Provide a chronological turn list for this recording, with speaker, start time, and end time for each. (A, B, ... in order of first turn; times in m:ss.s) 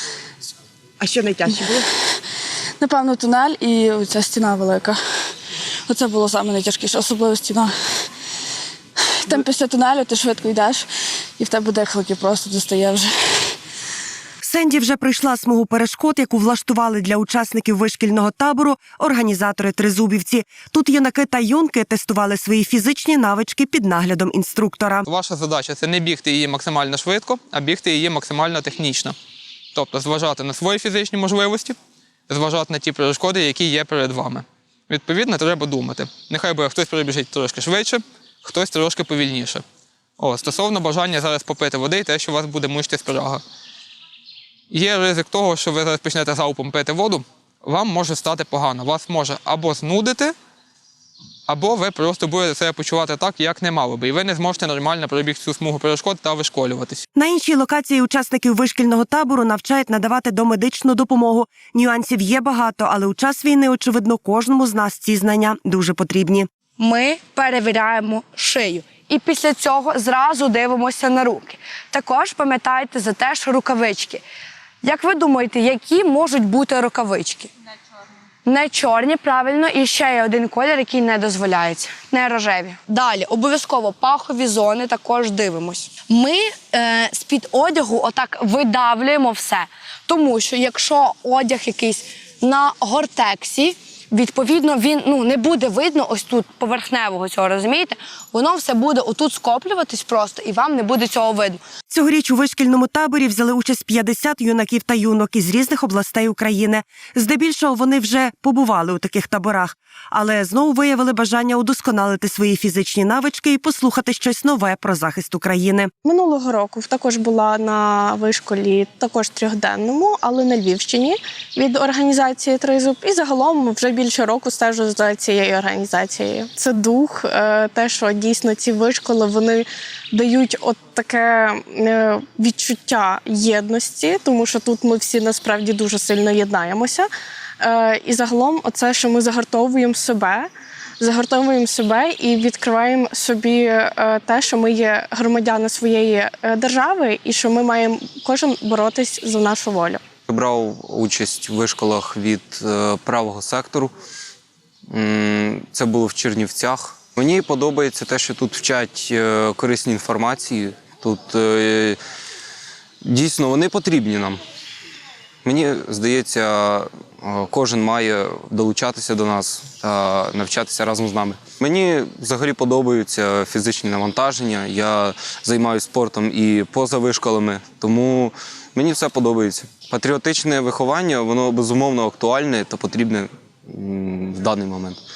0:01.0-0:01.9 A
0:02.8-0:05.0 B
0:05.9-0:08.1 B
0:09.2-0:13.6 B
0:14.4-0:25.0 A
0:25.1-0:29.2 C
0:29.7-0:31.8 C
0:32.3-0:39.6 C
0:40.2-0:43.4 C
0:44.7-0:50.4 C
0:51.5-0:57.0 C
0:57.2-1:06.5 A
1:06.8-1:14.2 D
1:14.8-1:17.5 D
1:18.5-1:41.6 D
1:41.9-1:55.9 A
1:56.0-2:17.1 E
2:17.6-2:30.0 E
2:30.3-2:33.9 F
2:34.9-2:42.0 F
2:43.0-2:44.4 F
2:45.4-3:05.0 F